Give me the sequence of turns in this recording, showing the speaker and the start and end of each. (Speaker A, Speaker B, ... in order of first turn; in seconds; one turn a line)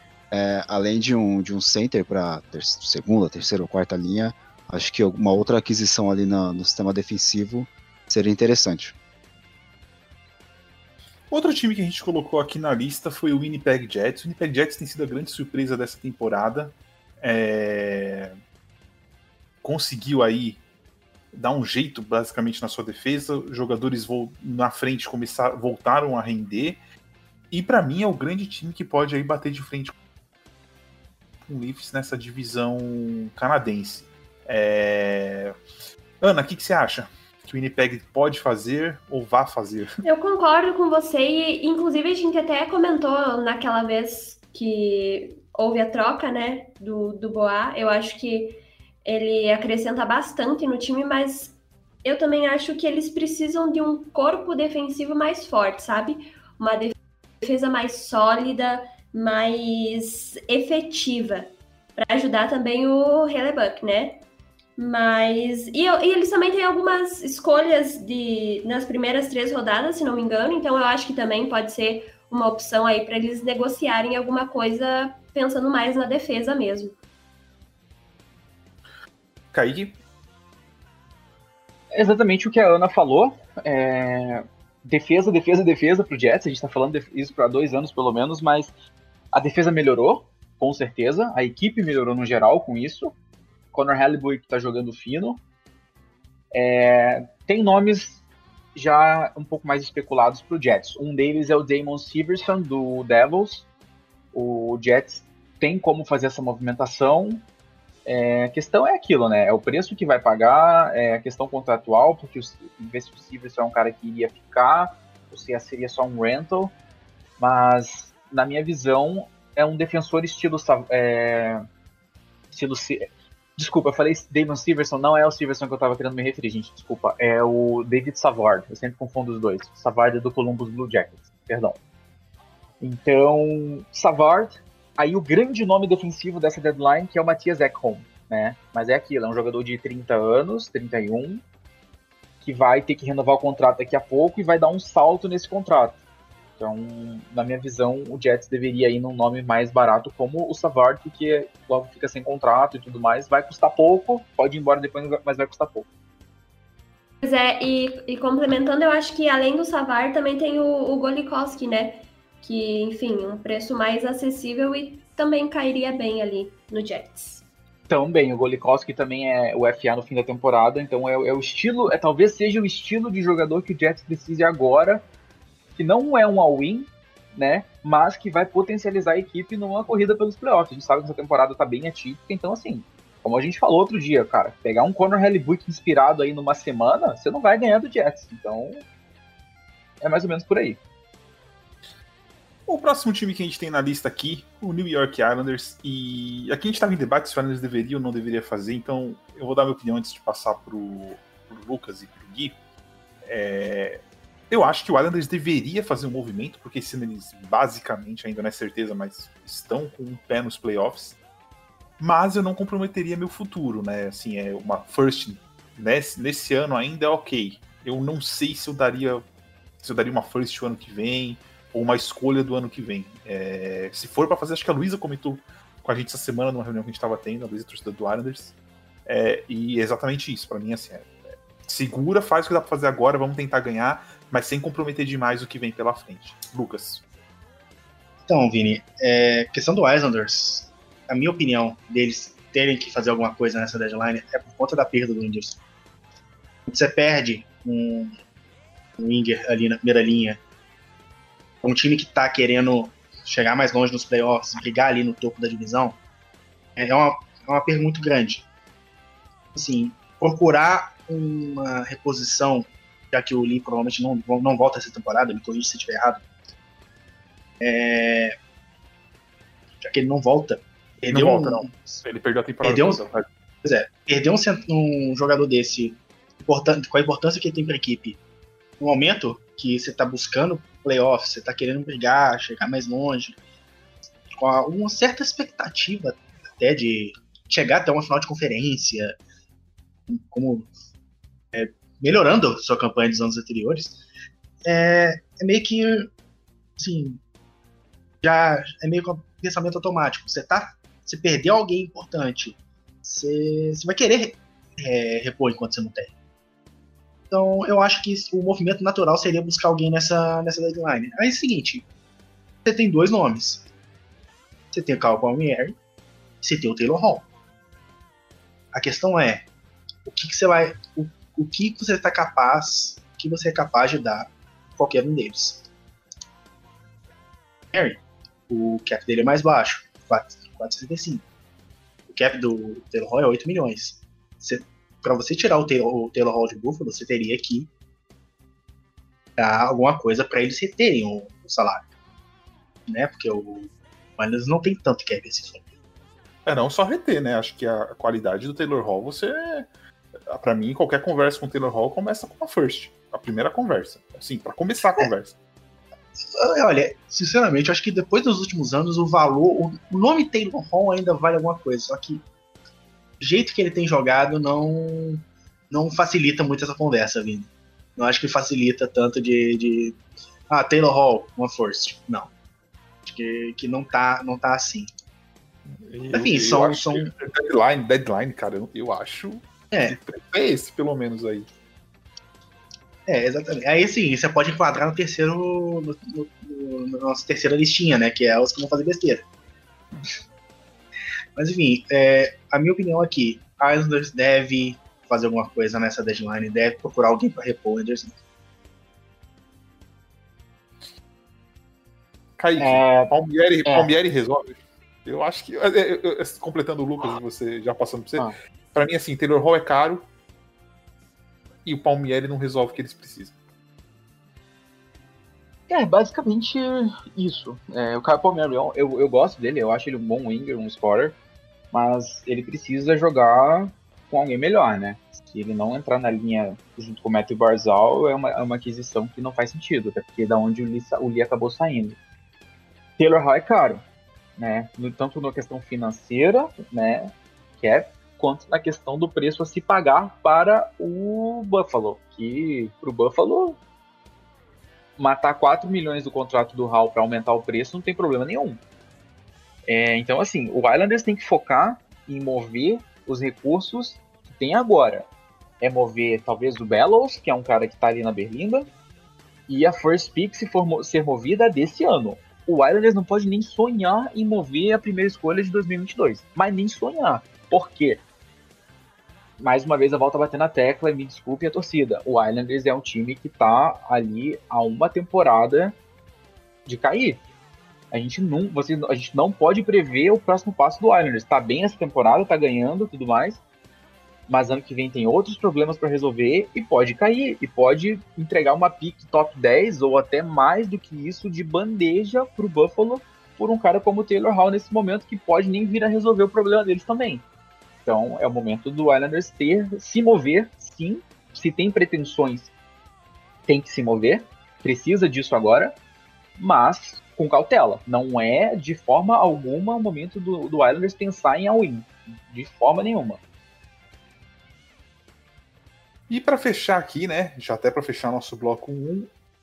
Speaker A: 0.3-9.0
Speaker B: 11.3-18.4
Speaker B: 19.6-20.6
Speaker B: 21.3-26.8
Speaker B: 27.5-29.9
Speaker B: 31.5-35.6
Speaker B: 36.2-39.9
Speaker C: 40.0-64.2
Speaker C: 64.8-77.0
Speaker B: 79.5-80.0
Speaker D: 81.9-88.7
Speaker D: 89.3-93.2
Speaker D: 93.7-95.4
Speaker D: 96.5-98.2
Speaker D: 98.8-103.7
Speaker D: 104.3-107.5
Speaker D: 108.0-116.7
Speaker D: 117.4-121.6
Speaker D: 122.5-131.8
Speaker D: 132.8-141.4
Speaker D: 142.4-146.0
Speaker D: 146.6-155.9
Speaker C: 157.2-167.4
Speaker D: 167.9-175.1
Speaker D: 175.8-188.8
Speaker D: 190.0-190.8
Speaker B: 192.7-202.6
Speaker B: 203.2-211.2
Speaker B: 212.0-219.2
Speaker B: 219.8-228.5
Speaker B: 229.1-237.0
Speaker E: 238.3-245.6
Speaker E: 246.7-248.2
Speaker E: 249.0-250.4
Speaker E: 251.6-256.0
Speaker E: 256.8-258.5
Speaker E: 259.6-266.2
Speaker E: 267.6-268.4
Speaker E: 269.8-272.0
Speaker B: 271.1-273.2
Speaker E: 272.6-273.0
Speaker E: 273.6-278.2
Speaker E: 278.8-283.4
Speaker E: 284.3-289.1
Speaker E: 290.1-290.7
Speaker E: 291.5-294.0
Speaker E: 294.6-296.1
Speaker E: 296.8-297.2
Speaker E: 298.2-306.1
Speaker E: 307.3-311.9
Speaker E: 312.6-313.7
Speaker E: 314.7-315.8
Speaker E: 316.4-317.3
Speaker E: 318.7-319.5
Speaker E: 320.1-325.6
Speaker E: 327.7-331.2
Speaker E: 332.1-337.7
Speaker E: 339.4-341.9
Speaker E: 342.9-345.6
Speaker B: 346.5-349.7
Speaker B: 350.3-355.4
Speaker E: 356.4-362.2
Speaker E: 363.2-370.0
Speaker E: 370.5-372.3
Speaker E: 373.1-374.9
Speaker B: 375.7-381.5
Speaker E: 376.1-377.1
Speaker E: 383.1-389.2
Speaker E: 391.4-398.2
Speaker B: 402.4-410.0
Speaker D: 402.6-403.1
Speaker D: 403.6-403.9
Speaker B: 411.6-413.4
Speaker D: 415.7-421.2
Speaker D: 421.7-432.0
Speaker D: 433.0-433.8
Speaker D: 434.4-443.6
Speaker D: 445.0-448.6
Speaker D: 449.7-455.1
Speaker D: 455.6-458.7
Speaker D: 459.5-468.0
Speaker D: 469.4-475.8
Speaker D: 476.7-477.2
Speaker D: 477.9-483.4
Speaker D: 484.3-497.2
Speaker D: 497.9-502.5
Speaker D: 503.5-505.8
Speaker D: 506.4-513.2
Speaker B: 516.1-519.1